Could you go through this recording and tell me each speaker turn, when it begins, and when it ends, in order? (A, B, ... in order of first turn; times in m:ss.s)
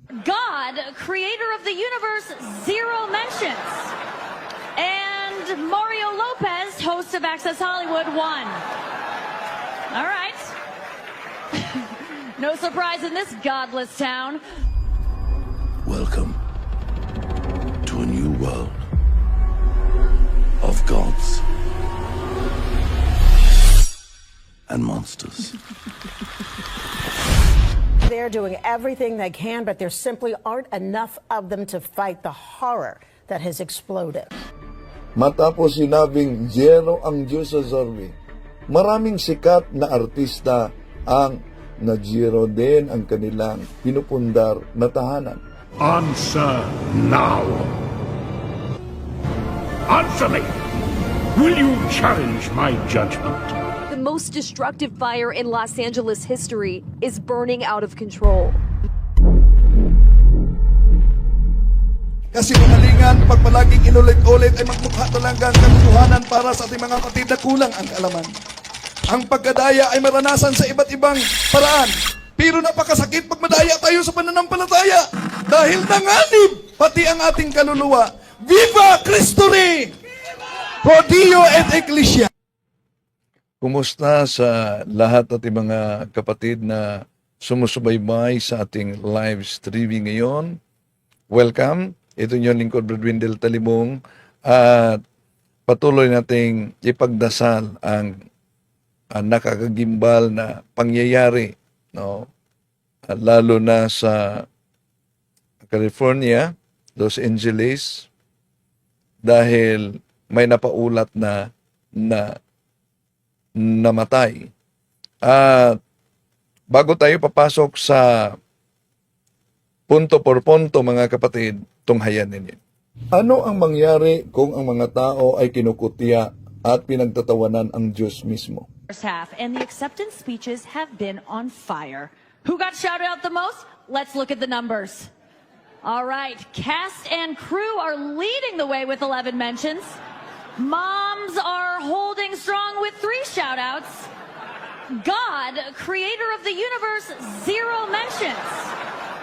0:00.2-0:03.9 A
0:04.8-0:08.6 A
0:09.9-0:10.5 A
0:11.5-0:14.4 A
0:15.8-0:16.4 B
0:17.8-0:18.8 B
0:20.6-0:21.4 B
0:24.7-0:25.6 B
0:28.0-0:34.3 C
0:35.2-0:38.2 D
0:38.7-0:45.4 D
0:45.8-0:47.7 E
0:49.9-0:50.5 E
0:51.3-0:53.5 E
0:53.9-0:58.6 F
1:02.3-1:08.3 D
1:09.1-1:19.9 D
1:20.8-1:22.3 D
1:23.6-1:30.6 D
1:31.3-1:35.0 D
1:35.7-1:38.2 D
1:39.1-1:42.3 D
1:43.1-1:44.4 D
1:45.6-1:48.1 D
1:49.2-1:52.4 D
1:53.6-1:54.5 D
1:55.2-1:55.8 D
1:56.7-1:58.4 D
1:59.9-2:02.6 D
2:03.1-2:08.7 D
2:08.9-2:15.1 A
2:15.8-2:20.0 A
2:20.6-2:24.1 A
2:24.9-2:28.7 A